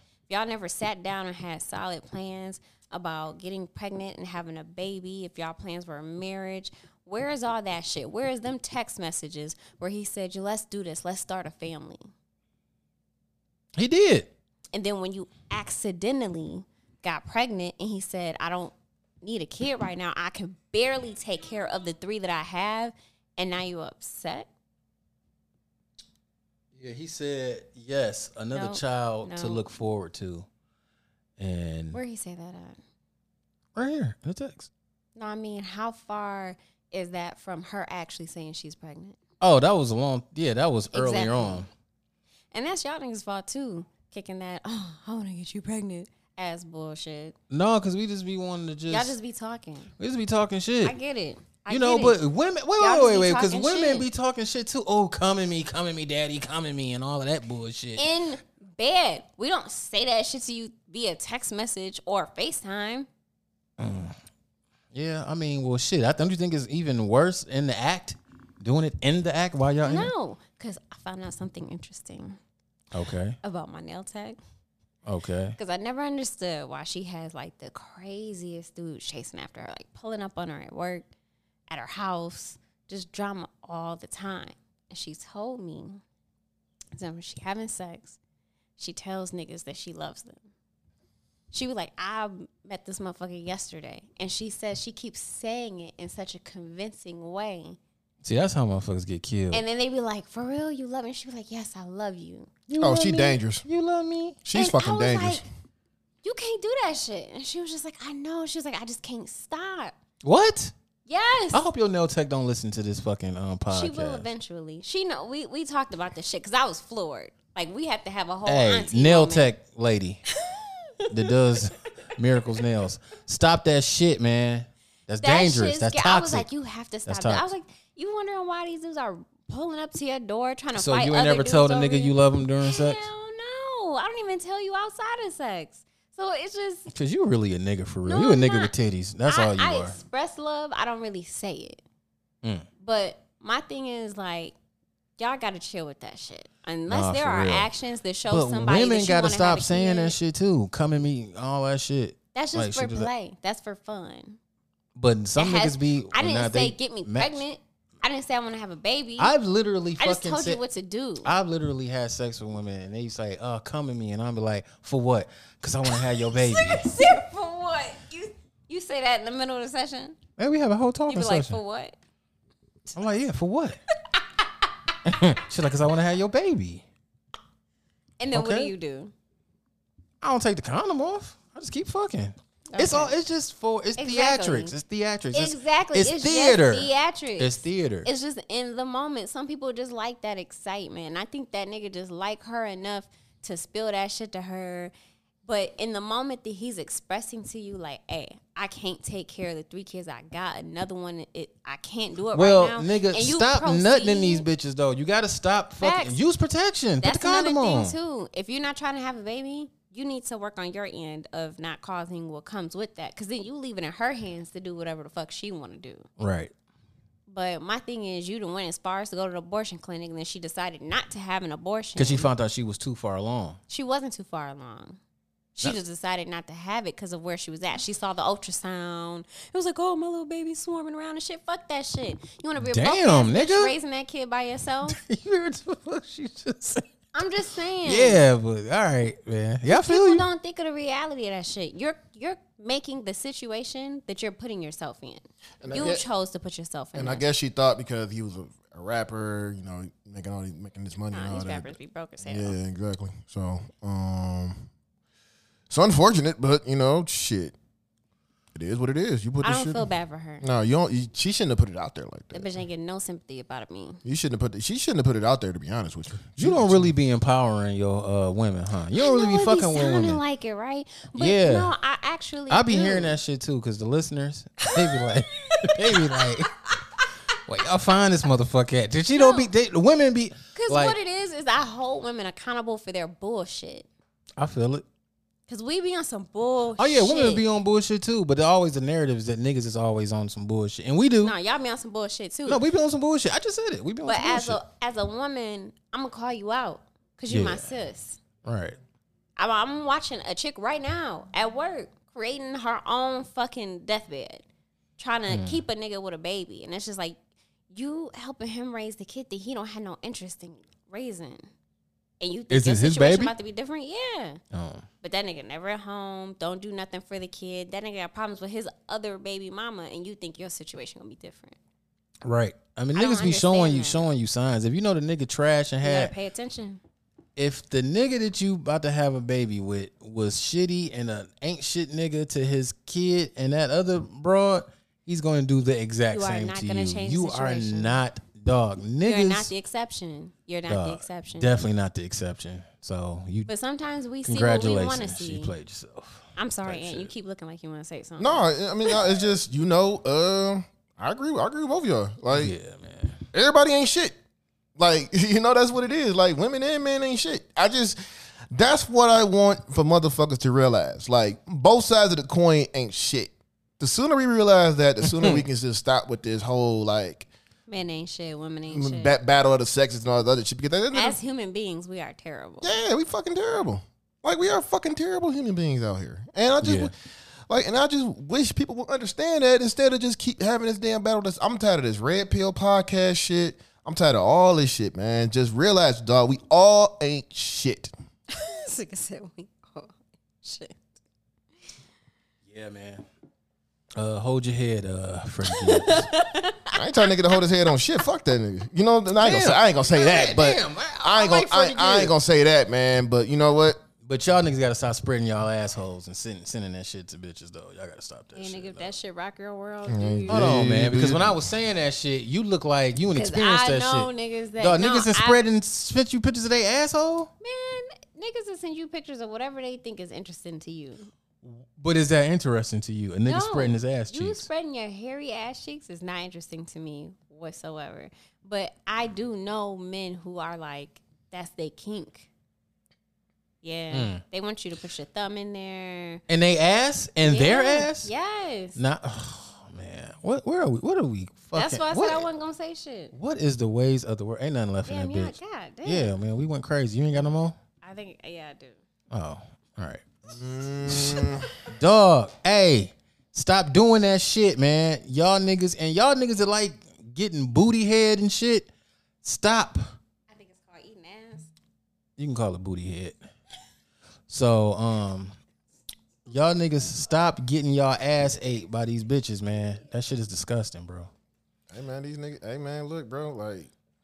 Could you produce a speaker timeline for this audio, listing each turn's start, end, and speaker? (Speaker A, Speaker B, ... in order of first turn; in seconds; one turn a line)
Speaker A: 0.3-12.1
Speaker B: 13.8-14.3
Speaker A: 14.7-24.5
Speaker B: 26.8-30.4
Speaker A: 28.5-29.6
Speaker B: 31.4-32.0
Speaker A: 31.9-32.8
Speaker B: 33.8-34.7
Speaker A: 35.2-39.2
Speaker B: 39.4-41.7
Speaker A: 40.9-41.6
Speaker A: 42.5-47.4
Speaker B: 47.5-49.1
Speaker A: 48.9-49.9
Speaker B: 50.0-51.0
Speaker A: 50.8-52.2
Speaker B: 51.7-58.0
Speaker A: 52.8-54.0
Speaker A: 58.0-63.1
Speaker B: 63.8-64.2
Speaker B: 64.9-70.1
Speaker A: 69.8-72.4
Speaker B: 72.9-73.4
Speaker A: 73.4-74.4
Speaker B: 75.0-75.6
Speaker A: 75.6-81.1
Speaker A: 81.7-86.0
Speaker A: 87.0-88.2
Speaker A: 88.8-90.5
Speaker A: 91.5-97.8
Speaker B: 98.2-99.6
Speaker A: 99.5-102.5
Speaker B: 102.7-104.4
Speaker C: 102.8-103.6
Speaker C: 104.4-105.5
Speaker A: 104.5-105.4
Speaker A: 106.2-110.0
Speaker B: 110.2-110.7
Speaker A: 111.1-111.6
Speaker B: 111.5-114.3
Speaker A: 113.7-119.5
Speaker B: 118.5-120.2
Speaker B: 121.1-126.5
Speaker A: 125.2-136.9
Speaker B: 127.0-127.5
Speaker B: 130.7-133.1
Speaker B: 136.9-140.0
Speaker A: 138.1-138.7
Speaker A: 139.3-141.8
Speaker A: 142.8-144.5
Speaker A: 145.2-150.1
Speaker B: 146.9-147.7
Speaker B: 148.3-153.1
Speaker A: 152.3-154.4
Speaker B: 154.9-157.4
Speaker A: 155.4-159.3
Speaker B: 159.2-160.6
Speaker A: 160.0-161.3
Speaker B: 161.2-167.0
Speaker A: 166.3-170.2
Speaker B: 170.4-171.6
Speaker A: 171.1-171.9
Speaker B: 172.9-173.8
Speaker B: 175.0-176.8
Speaker A: 178.2-179.1
Speaker B: 178.3-178.7
Speaker B: 180.2-188.1
Speaker A: 182.7-183.1
Speaker A: 184.0-184.7
Speaker A: 185.3-194.9
Speaker A: 195.4-204.4
Speaker B: 202.3-207.9
Speaker A: 205.8-206.2
Speaker A: 207.0-216.1
Speaker B: 216.2-216.5
Speaker A: 217.3-222.3
Speaker B: 221.9-223.6
Speaker A: 223.7-225.0
Speaker A: 225.6-235.0
Speaker B: 232.6-233.7
Speaker B: 234.9-236.8
Speaker A: 237.1-238.2
Speaker B: 237.8-240.3
Speaker A: 239.7-247.2
Speaker C: 245.6-246.0
Speaker C: 246.9-254.7
Speaker A: 251.1-252.6
Speaker C: 255.7-257.6
Speaker C: 258.5-259.9
Speaker A: 259.4-260.4
Speaker C: 260.4-262.5
Speaker A: 262.3-264.0
Speaker C: 264.1-266.9
Speaker B: 266.4-270.2
Speaker A: 268.9-273.2
Speaker B: 271.2-271.7
Speaker B: 272.5-276.5
Speaker A: 274.7-275.0
Speaker A: 275.7-276.3
Speaker B: 277.4-281.0
Speaker A: 279.2-279.5
Speaker A: 280.6-283.9
Speaker B: 284.4-284.9
Speaker A: 285.5-287.4
Speaker B: 286.8-291.4
Speaker A: 291.2-292.6
Speaker B: 292.4-294.6
Speaker A: 294.1-298.2
Speaker B: 297.3-297.7
Speaker B: 298.4-298.8
Speaker A: 299.4-304.4
Speaker A: 305.0-307.2
Speaker B: 305.3-305.6
Speaker A: 307.7-311.5
Speaker A: 312.2-314.4
Speaker B: 312.5-313.3
Speaker B: 314.5-314.9
Speaker A: 315.0-321.6
Speaker B: 322.2-326.1
Speaker A: 322.9-324.1
Speaker A: 325.8-326.8
Speaker B: 327.4-339.5
Speaker A: 336.1-338.0
Speaker A: 339.0-341.5
Speaker B: 340.7-343.5
Speaker A: 343.5-345.5
Speaker B: 344.2-347.1
Speaker A: 346.4-348.9
Speaker C: 348.2-352.5
Speaker B: 352.3-353.2
Speaker C: 353.3-354.2
Speaker C: 354.8-358.0
Speaker C: 358.5-367.3
Speaker B: 365.1-365.4
Speaker A: 367.7-369.1
Speaker C: 368.7-371.2
Speaker A: 370.9-372.8
Speaker C: 372.6-376.9
Speaker B: 376.6-376.9
Speaker C: 377.5-387.9
Speaker A: 388.3-390.8
Speaker B: 392.5-393.1
Speaker B: 393.9-396.1
Speaker A: 395.5-396.7
Speaker C: 396.7-403.8
Speaker B: 399.2-402.1
Speaker B: 404.0-408.9
Speaker A: 408.3-410.5
Speaker C: 409.9-411.4
Speaker B: 410.3-417.3
Speaker A: 413.1-415.4
Speaker A: 417.4-421.1
Speaker B: 421.4-424.4
Speaker A: 423.2-432.3
Speaker A: 433.6-436.2
Speaker B: 433.9-434.2
Speaker B: 436.3-438.1
Speaker A: 437.2-438.8
Speaker B: 438.8-442.3
Speaker A: 441.6-443.1
Speaker B: 443.1-447.6
Speaker A: 444.9-446.1
Speaker A: 447.8-448.8
Speaker B: 449.1-450.1
Speaker C: 450.3-451.5
Speaker B: 450.9-458.7
Speaker B: 459.2-459.9
Speaker A: 460.3-461.5
Speaker B: 462.2-463.2
Speaker B: 464.3-465.4
Speaker B: 466.3-471.1
Speaker C: 471.7-473.7